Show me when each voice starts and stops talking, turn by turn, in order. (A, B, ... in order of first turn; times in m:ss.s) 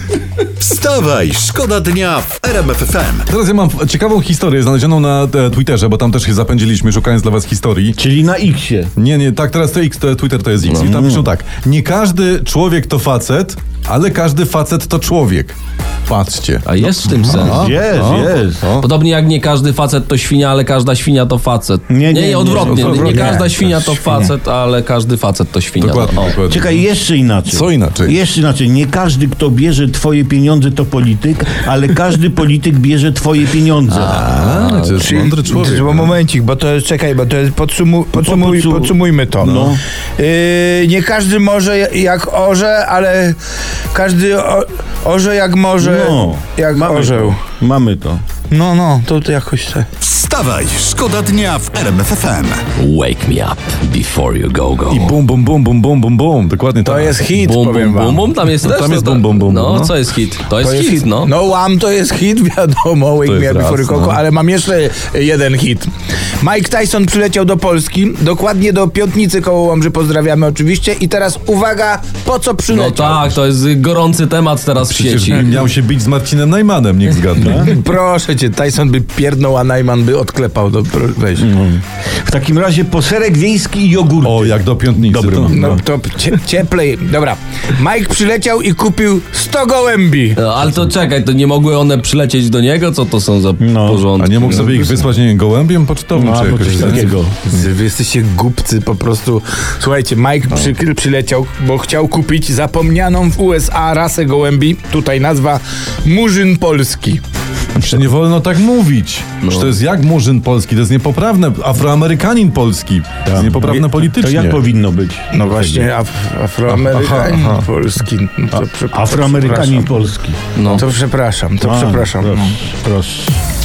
0:00.6-0:03.3 A
0:03.3-0:08.0 B
0:08.0-0:08.9 C
0:09.0-0:15.6 B
0:10.7-0:10.9 D
0:10.8-0:11.3 C
0:16.1-0:18.9 B
0:16.7-0:26.4 D
0:17.2-0:18.6 C
0:21.9-0:24.3 C
0:22.6-0:23.9 B
0:25.8-0:26.8 B
0:26.5-0:34.2 C
0:27.5-0:28.2 B
0:33.9-0:35.2 D
0:34.1-0:36.2 B
0:35.0-0:43.4 E
0:38.1-0:39.8 C
0:43.9-0:47.4 E
0:45.8-0:48.2 C
0:48.5-0:49.9 E
0:50.0-0:52.6 A
0:52.8-0:55.2 D
0:54.9-0:57.2 B
0:56.8-0:58.3 E
0:57.3-1:01.3 D
0:58.5-0:59.9 B
1:00.6-1:05.9 E
1:03.2-1:04.2 B
1:06.4-1:13.3 E
1:12.7-1:15.6 D
1:14.8-1:17.6 B
1:17.4-1:21.5 E
1:17.4-1:17.7 C
1:21.4-1:25.8 C
1:24.2-1:25.7 B
1:25.5-1:30.4 E
1:30.4-1:34.9 D
1:33.6-1:35.1 C
1:34.2-1:37.2 B
1:36.2-1:37.4 C
1:36.8-1:47.2 E
1:47.8-1:54.6 B
1:49.4-1:49.8 D
1:53.2-1:55.9 C
1:55.3-1:59.9 E
1:56.7-1:57.6 B
1:58.5-2:00.4 C
2:00.6-2:00.8 D
2:00.7-2:02.6 E
2:01.6-2:03.4 C